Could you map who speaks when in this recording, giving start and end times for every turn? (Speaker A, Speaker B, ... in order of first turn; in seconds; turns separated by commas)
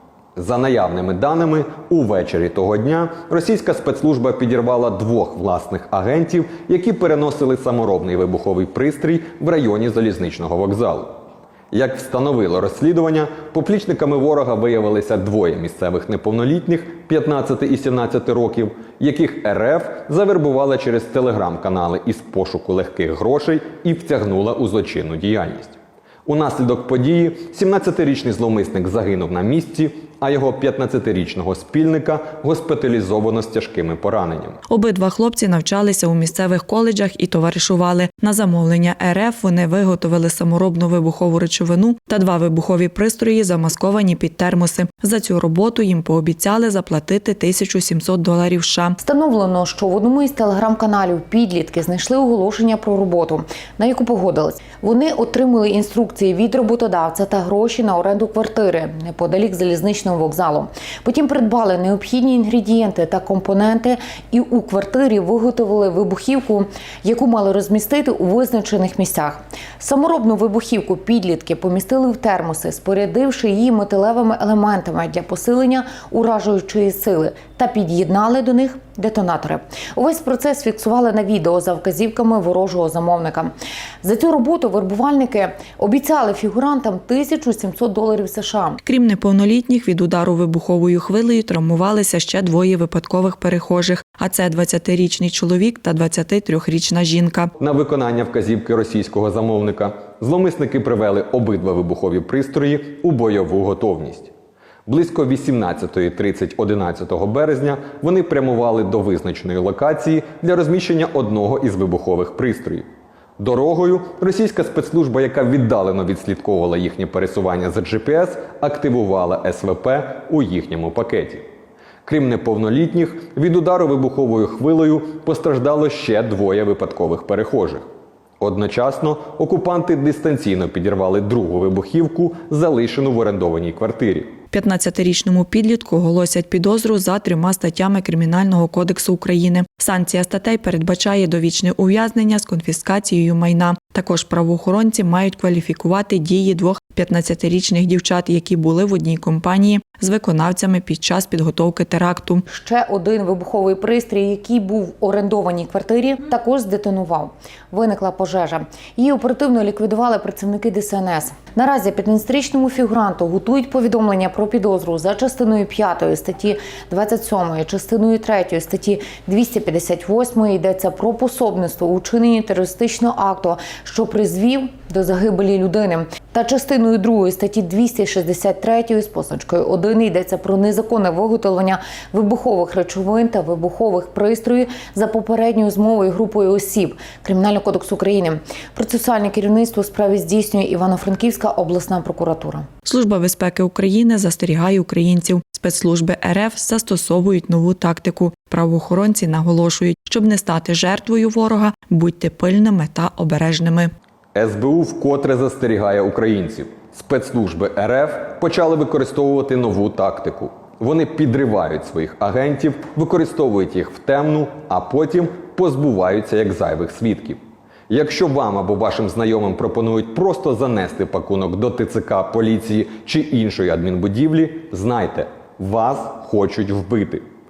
Speaker A: 0.4-11.2, Speaker A: 11.7-34.6, Speaker B: 34.7-49.0, Speaker C: 49.0-88.8, Speaker B: 88.8-97.5, Speaker A: 97.6-104.3, Speaker A: 104.8-112.9, Speaker A: 113.4-121.5, Speaker A: 122.0-127.8, Speaker A: 128.4-134.4, Speaker B: 134.5-152.4, Speaker C: 152.5-192.7, Speaker B: 192.8-203.9, Speaker A: 204.3-227.2